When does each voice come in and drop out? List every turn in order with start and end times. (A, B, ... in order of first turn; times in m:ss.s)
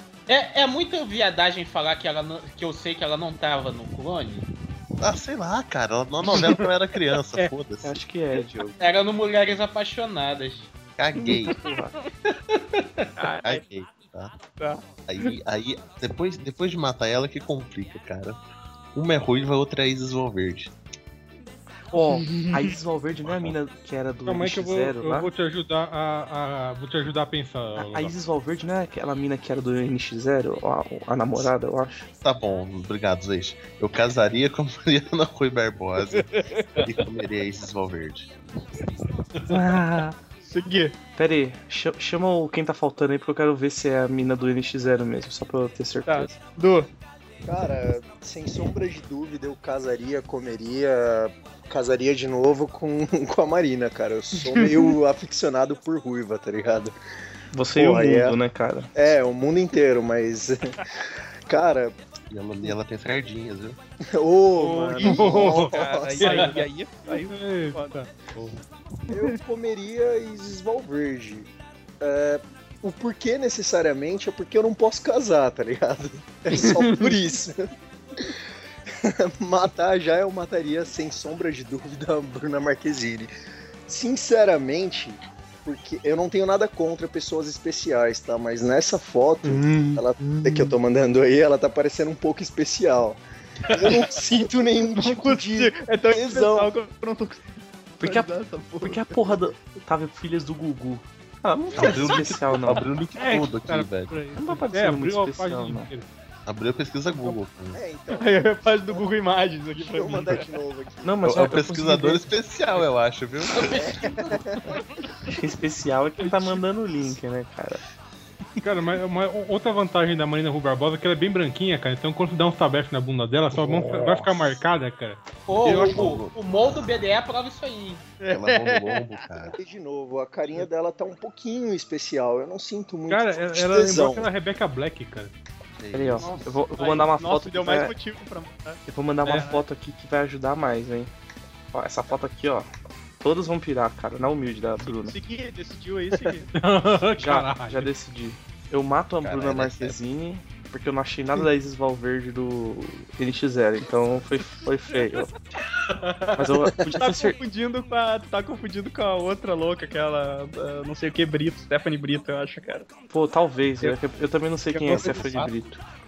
0:00.3-0:04.5 A
0:05.0-0:08.0 B
0:07.8-0:08.8 C
0:08.8-0:10.7 A
0:11.0-0:11.6 B
0:11.2-0:11.5 D
0:11.6-0:11.9 C
0:12.3-0:13.1 A
0:13.2-0:13.6 D
0:13.4-0:14.3 B
0:14.6-0:15.3 D
0:15.1-0:18.4 B
0:18.9-0:20.7 B
0:21.9-0:25.3 C
0:21.9-0:22.7 D
0:23.2-0:23.6 B
0:24.2-0:28.1 E
0:27.8-0:32.1 C
0:32.2-0:38.3 B
0:36.1-0:37.0 D
0:39.5-0:40.2 C
0:40.4-0:41.0 D
0:41.2-0:46.4 C
0:46.0-0:46.9 D
0:47.4-0:56.9 F
0:54.5-0:54.9 D
0:57.5-0:58.9 C
0:57.7-0:58.4 F
0:58.9-1:02.0 F
1:02.3-1:03.8 B
1:04.1-1:06.4 F
1:04.6-1:07.9 D
1:05.0-1:08.6 E
1:09.1-1:17.6 F
1:16.5-1:17.1 D
1:18.9-1:23.3 F
1:23.9-1:36.7 F
1:29.4-1:30.7 C
1:34.9-1:39.4 D
1:38.0-1:42.9 C
1:41.7-1:44.2 B
1:43.1-1:46.0 E
1:44.4-1:45.9 C
1:46.4-1:47.8 B
1:47.7-1:49.1 F
1:48.1-1:50.5 D
1:49.7-1:51.2 F
1:51.0-1:52.3 C
1:51.2-1:53.9 B
1:53.5-1:54.4 A
1:53.8-1:54.7 F
1:55.3-1:57.8 C
1:58.6-2:05.2 E
2:03.5-2:04.6 B
2:05.5-2:08.1 A
2:05.6-2:06.4 B
2:08.2-2:09.2 D
2:08.3-2:09.6 B
2:09.6-2:14.3 F
2:13.1-2:15.3 E
2:15.8-2:16.5 B
2:15.9-2:17.9 C
2:16.8-2:19.6 D
2:18.9-2:21.1 C
2:21.7-2:22.7 C
2:23.2-2:25.2 C
2:25.0-2:26.5 D
2:26.5-2:27.9 E
2:27.2-2:35.3 C
2:29.2-2:30.0 B
2:35.8-2:36.4 A
2:36.4-2:37.4 C
2:36.9-2:42.9 D
2:43.1-2:45.8 C
2:44.7-2:45.2 D
2:44.9-2:45.5 B